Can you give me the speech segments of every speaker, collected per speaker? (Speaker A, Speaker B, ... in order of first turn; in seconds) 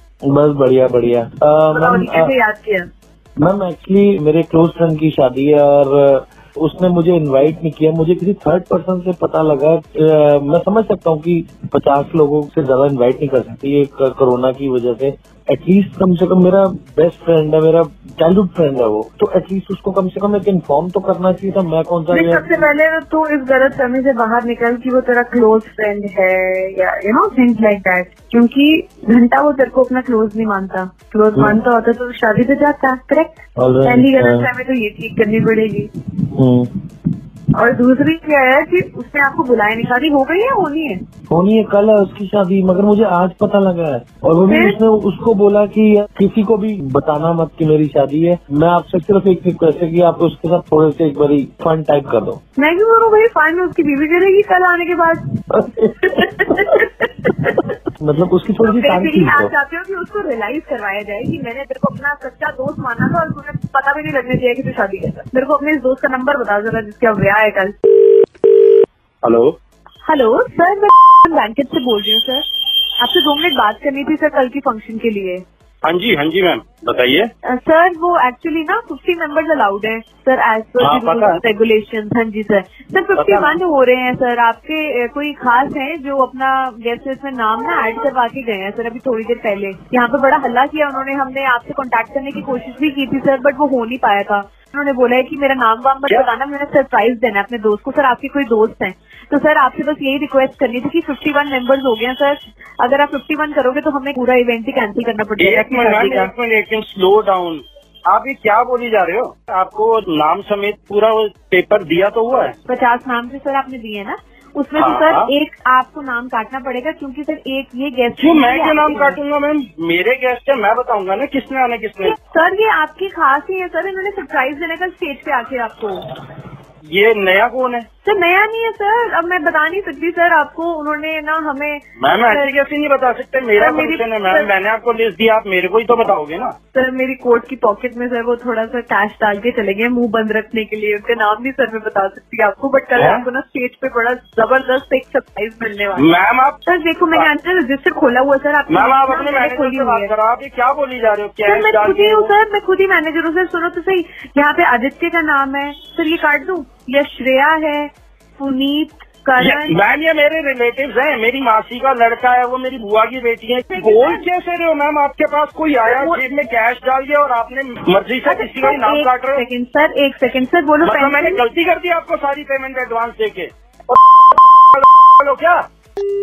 Speaker A: 0.2-2.3, 3.4-22.6, 31.3-31.6, 33.6-34.5, 36.3-36.7, 41.3-52.4, 55.5-56.6, 58.0-59.5
Speaker B: 1.7-2.9, 22.1-35.9, 37.5-41.0, 44.5-44.8, 52.5-55.2, 56.0-57.6, 58.6-67.7, 70.0-72.4, 73.0-75.4, 77.5-106.3, 112.7-119.2, 122.0-126.1, 128.0-132.5, 133.6-134.5, 136.7-146.1, 146.7-150.1, 151.4-159.8, 163.7-164.2, 165.8-166.2, 168.2-171.4
Speaker C: 69.2-69.5, 75.8-77.3, 80.8-81.4, 83.2-83.5, 105.4-112.5, 114.8-115.3, 118.2-122.1, 126.9-127.9, 132.0-136.5, 143.0-143.2, 146.0-146.6, 148.7-152.3, 159.4-169.4, 170.8-175.6